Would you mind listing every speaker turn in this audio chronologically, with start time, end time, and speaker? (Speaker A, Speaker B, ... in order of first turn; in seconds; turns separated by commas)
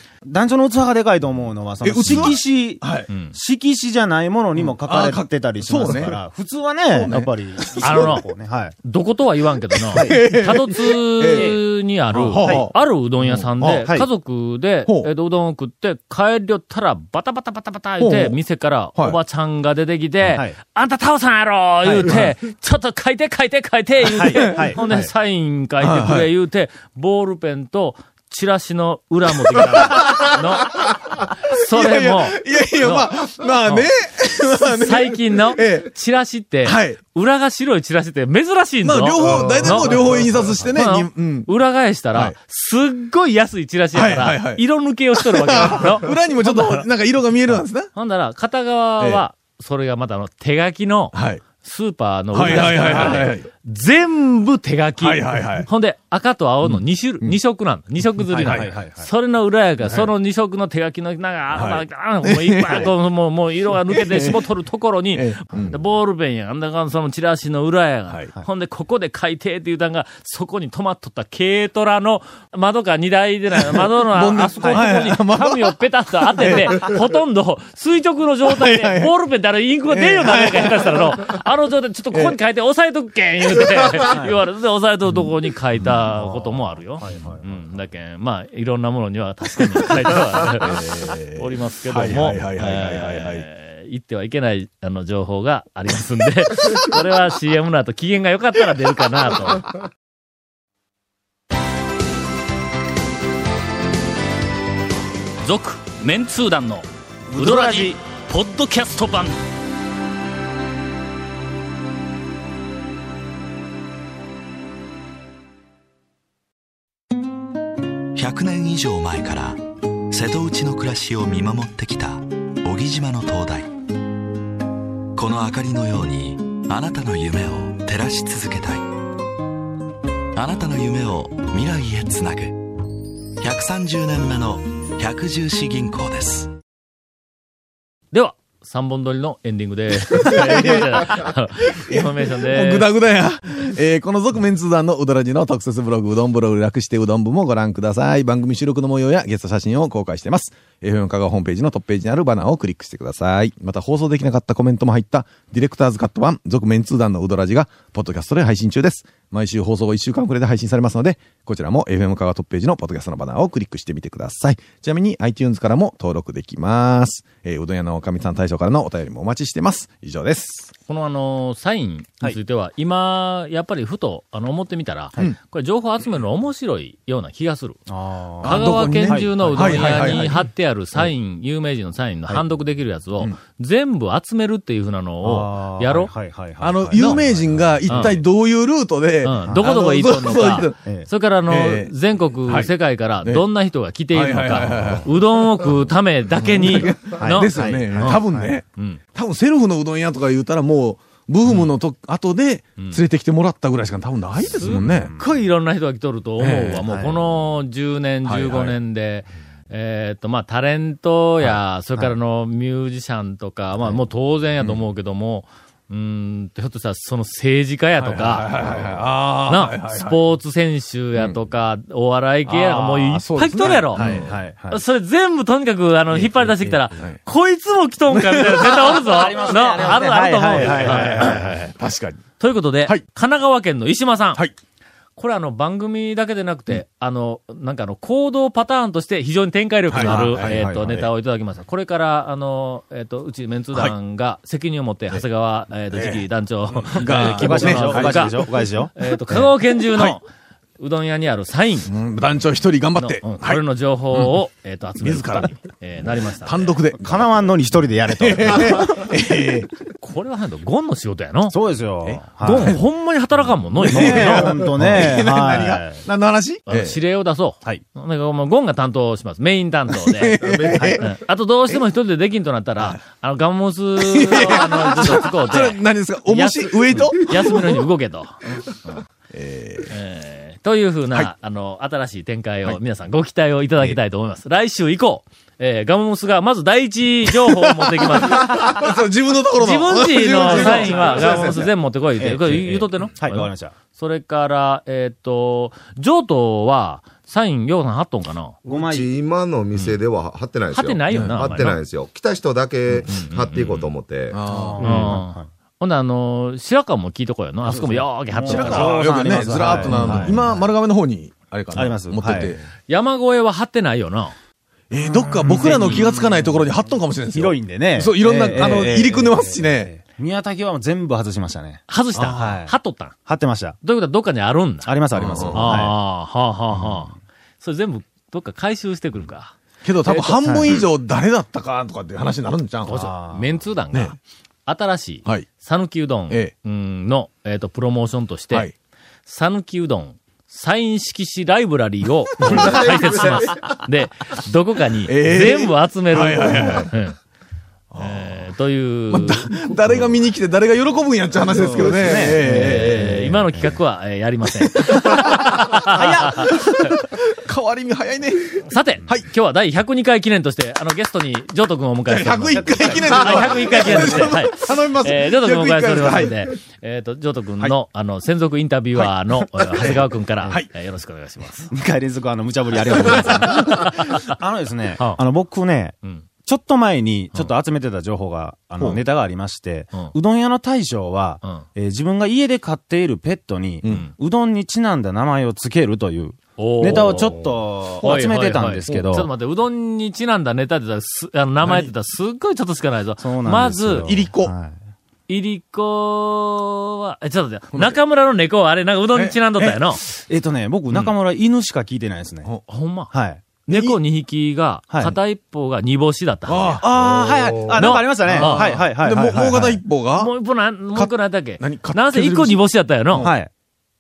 Speaker A: 0.3-8.8, Speaker B: 1.8-3.1, Speaker C: 2.1-2.4, Speaker C: 3.1-3.4, Speaker B: 4.6-6.2, Speaker B: 6.9-8.2, Speaker C: 7.1-8.3, Speaker C: 8.8-33.1, Speaker B: 9.8-11.6, Speaker A: 9.9-10.2, Speaker A: 11.3-12.7, Speaker B: 12.2-13.9, Speaker A: 13.8-14.1, Speaker B: 18.0-18.4, Speaker A: 20.2-20.6, Speaker B: 21.9-22.2, Speaker A: 24.1-25.1, Speaker B: 24.4-24.7, Speaker B: 25.8-26.3, Speaker B: 29.5-30.2, Speaker B: 31.7-35.9, Speaker C: 33.6-33.9, Speaker C: 34.6-46.9, Speaker B: 36.6-37.0, Speaker B: 38.8-41.5, Speaker D: 39.2-40.6, Speaker B: 42.1-42.4, Speaker B: 43.9-47.9, Speaker C: 47.5-99.8, Speaker B: 49.0-49.2, Speaker B: 51.1-51.4, Speaker B: 52.3-53.5, Speaker A: 52.6-53.3, Speaker B: 55.0-55.7, Speaker B: 56.6-57.4, Speaker A: 58.3-59.1, Speaker B: 58.4-58.8, Speaker B: 61.5-62.9, Speaker B: 63.9-64.5, Speaker B: 65.1-65.8, Speaker B: 73.6-76.8, Speaker B: 78.5-79.1, Speaker B: 79.9-81.3, Speaker B: 82.1-82.4, Speaker A: 84.1-84.4, Speaker A: 86.1-87.8, Speaker B: 90.1-93.5, Speaker C: 105.4-109.4, Speaker A: 107.3-108.0, Speaker E: 118.2-123.7, Speaker E: 125.2-128.9, Speaker E: 130.3-132.7, Speaker E: 133.4-136.5, Speaker C: 138.1-142.9, Speaker B: 140.1-170.7, Speaker C: 170.9-177.8, Speaker A: 177.9-180.4, Speaker C: 178.4-186.1, Speaker B: 178.4-180.4, Speaker A: 185.2-188.2, Speaker B: 186.6-190.8, Speaker C: 186.9-187.2, Speaker C: 187.9-188.2, Speaker C: 189.2-198.2, Speaker A: 189.4-189.8, Speaker A: 190.8-191.1, Speaker B: 191.5-191.9, Speaker B: 192.5-192.7, Speaker B: 194.1-195.3, Speaker A: 194.5-195.0, Speaker B: 196.3-205.1, Speaker A: 197.2-198.6, Speaker C: 202.8-203.0, Speaker C: 204.4-231.6, Speaker A: 204.7-205.4, Speaker B: 206.4-206.9, Speaker A: 206.8-207.3, Speaker B: 208.2-208.8, Speaker B: 218.0-220.2, Speaker A: 222.5-224.8, Speaker B: 223.1-224.3, Speaker B: 226.1-227.2, Speaker B: 228.1-229.1, Speaker A: 228.7-231.6, Speaker B: 230.5-232.2, Speaker C: 232.4-234.5, Speaker C: 235.2-250.2, Speaker B: 239.9-240.6, Speaker A: 239.9-241.1, Speaker B: 245.9-246.2, Speaker B: 246.8-248.5, Speaker A: 247.0-248.9, Speaker B: 249.3-250.2, Speaker C: 250.8-251.9, Speaker B: 251.9-254.4, Speaker C: 253.0-256.8, Speaker B: 255.0-255.5, Speaker B: 256.4-257.6, Speaker A: 256.9-259.1, Speaker B: 258.1-259.7, Speaker C: 260.0-261.6, Speaker A: 261.5-262.8, Speaker B: 262.0-262.8, Speaker C: 262.4-264.6, Speaker B: 263.8-267.0, Speaker A: 263.8-266.1, Speaker C: 266.7-279.1, Speaker B: 269.9-271.2, Speaker D: 270.4-270.9, Speaker A: 270.8-271.0, Speaker B: 274.0-277.8, Speaker B: 279.3-279.9, Speaker C: 279.9-288.9, Speaker B: 287.4-291.7, Speaker C: 289.6-298.6, Speaker A: 290.4-291.3, Speaker A: 292.2-293.8, Speaker A: 298.6-299.1, Speaker D: 298.7-304.4, Speaker C: 300.7-301.9, Speaker B: 301.1-301.5, Speaker C: 303.0-303.9, Speaker B: 304.3-305.1, Speaker A: 304.4-305.5, Speaker C: 304.8-310.4, Speaker A: 307.7-310.7, Speaker B: 308.4-312.6, Speaker A: 311.7-312.6, Speaker C: 312.9-314.4, Speaker B: 314.9-319.9, Speaker A: 315.0-316.8, Speaker C: 315.8-316.0, Speaker A: 317.3-321.8, Speaker C: 321.9-323.2, Speaker A: 322.3-322.8, Speaker A: 323.3-323.8, Speaker C: 323.8-330.9, Speaker A: 324.8-326.0, Speaker B: 325.1-325.7, Speaker B: 329.8-333.0, Speaker A: 330.4-330.8, Speaker A: 332.9-333.6, Speaker C: 332.9-338.7, Speaker C: 339.3-347.2, Speaker D: 342.4-343.8, Speaker B: 345.1-346.9, Speaker B: 347.9-348.4, Speaker C: 348.0-350.0, Speaker B: 349.1-353.1, Speaker A: 351.5-353.7, Speaker C: 351.6-356.9, Speaker D: 351.7-352.3, Speaker B: 355.0-355.4, Speaker A: 355.9-356.6, Speaker B: 356.2-359.3, Speaker C: 358.7-371.7, Speaker B: 362.1-366.5, Speaker A: 362.6-363.4, Speaker B: 368.9-370.7, Speaker A: 371.7-389.3, Speaker C: 373.2-373.9, Speaker C: 378.8-379.0, Speaker B: 383.8-384.1, Speaker C: 383.9-384.1, Speaker C: 386.6-394.2, Speaker B: 386.9-387.1, Speaker B: 391.6-391.9, Speaker A: 393.2-394.8, Speaker B: 394.0-394.5, Speaker C: 395.3-400.0, Speaker B: 397.7-398.0, Speaker B: 399.1-399.9, Speaker A: 400.1-402.5, Speaker C: 402.7-403.1, Speaker A: 403.1-403.4, Speaker C: 403.7-406.8, Speaker B: 403.7-404.0, Speaker A: 404.9-405.2, Speaker B: 406.5-407.4, Speaker A: 406.8-409.8, Speaker D: 406.9-407.9, Speaker C: 407.7-408.8, Speaker B: 408.2-410.3, Speaker C: 410.1-413.3, Speaker B: 410.9-413.4, Speaker A: 413.2-413.5